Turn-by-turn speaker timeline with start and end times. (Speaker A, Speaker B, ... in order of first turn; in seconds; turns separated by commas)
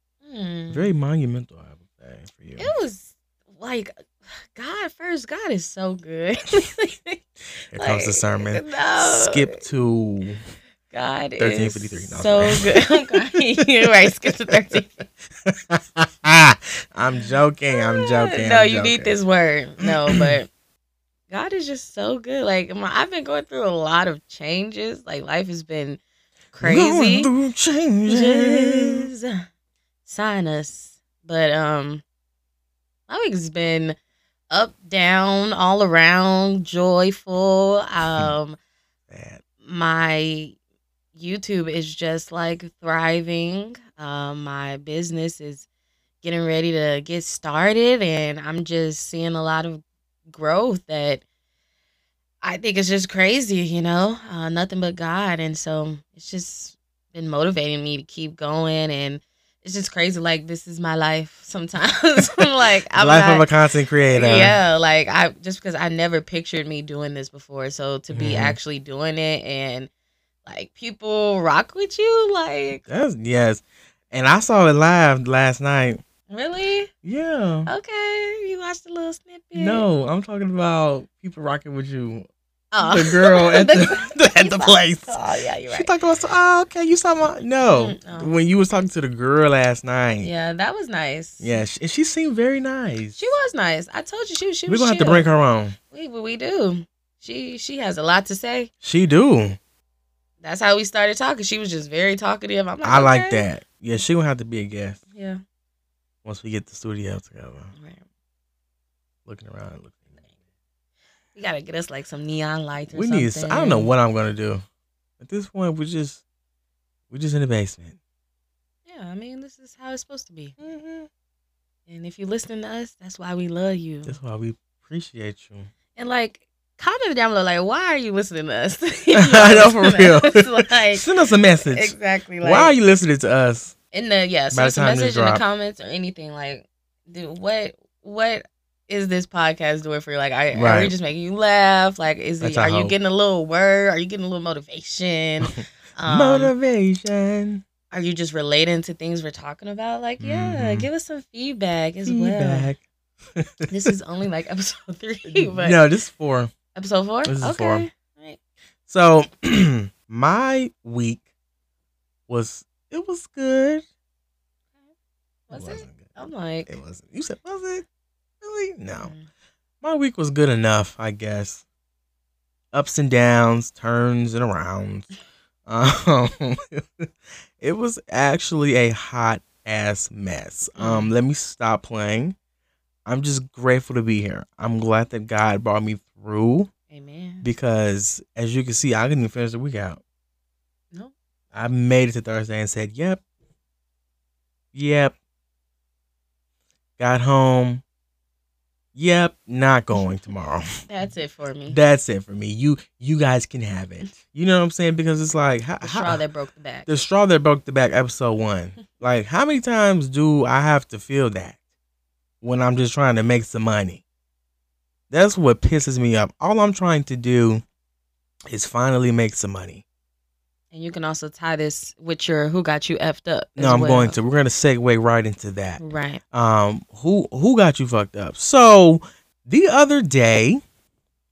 Speaker A: 0.2-0.9, Speaker B: 0.7-2.7, Speaker A: 2.6-7.2, Speaker B: 7.7-10.4, Speaker A: 7.8-9.6, Speaker A: 10.9-15.1, Speaker B: 11.4-13.0, Speaker B: 15.4-19.1, Speaker A: 17.7-20.5, Speaker B: 19.8-20.4, Speaker A: 21.3-26.0, Speaker A: 26.5-27.3, Speaker B: 26.6-29.1, Speaker A: 28.1-29.4, Speaker A: 30.1-32.0, Speaker A: 33.1-34.0, Speaker A: 34.5-38.6, Speaker B: 39.1-39.4, Speaker A: 39.6-40.5, Speaker A: 41.1-45.7, Speaker A: 46.2-51.2, Speaker A: 52.4-63.5, Speaker B: 63.0-64.6, Speaker A: 64.1-69.9, Speaker B: 68.1-68.6, Speaker A: 70.5-72.8, Speaker B: 72.9-76.0, Speaker A: 76.3-76.9, Speaker B: 77.0-77.7, Speaker A: 77.7-79.9, Speaker B: 79.5-82.3, Speaker A: 82.7-85.9, Speaker B: 82.8-85.2, Speaker B: 85.7-90.3, Speaker A: 87.6-88.3, Speaker A: 90.2-91.6, Speaker B: 91.4-93.2, Speaker A: 93.2-95.3, Speaker B: 94.7-95.8, Speaker A: 95.9-98.7, Speaker B: 98.8-99.6, Speaker A: 100.4-103.5, Speaker B: 102.8-105.0, Speaker A: 105.1-105.4, Speaker B: 106.2-107.7, Speaker A: 107.8-108.0, Speaker B: 109.2-110.2, Speaker A: 111.3-113.9, Speaker B: 112.9-114.6, Speaker B: 115.2-116.2, Speaker B: 117.1-118.0, Speaker A: 118.9-120.5, Speaker B: 120.6-121.1, Speaker A: 121.9-124.2, Speaker B: 124.0-125.7, Speaker A: 126.0-132.7, Speaker B: 129.2-133.7, Speaker A: 133.9-146.5, Speaker B: 134.5-135.4, Speaker B: 140.5-140.9, Speaker B: 142.4-142.9, Speaker B: 145.5-147.6, Speaker A: 147.9-152.7, Speaker B: 150.2-150.9, Speaker B: 152.1-152.8, Speaker B: 153.4-153.7, Speaker A: 153.7-155.8, Speaker B: 155.2-156.5, Speaker A: 156.7-158.4, Speaker B: 157.2-157.9, Speaker B: 158.9-161.2, Speaker B: 162.3-163.8, Speaker A: 165.5-166.7, Speaker B: 165.5-166.1, Speaker B: 166.7-167.8, Speaker B: 168.4-169.1, Speaker A: 169.0-169.3, Speaker B: 169.8-171.6, Speaker B: 172.7-175.1, Speaker B: 175.7-177.1, Speaker B: 177.6-182.3, Speaker A: 180.8-181.1, Speaker B: 183.1-186.7, Speaker A: 186.9-187.5, Speaker B: 187.4-190.0, Speaker B: 191.5-193.2, Speaker B: 194.7-195.2, Speaker B: 197.0-197.8, Speaker B: 198.9-200.7, Speaker A: 200.9-201.8, Speaker B: 201.7-206.2, Speaker A: 205.8-206.9, Speaker B: 206.9-211.6, Speaker B: 212.4-214.0, Speaker B: 215.1-217.6, Speaker B: 218.5-219.8, Speaker A: 220.7-224.2, Speaker B: 223.6-225.8, Speaker A: 225.8-226.2, Speaker B: 226.3-230.6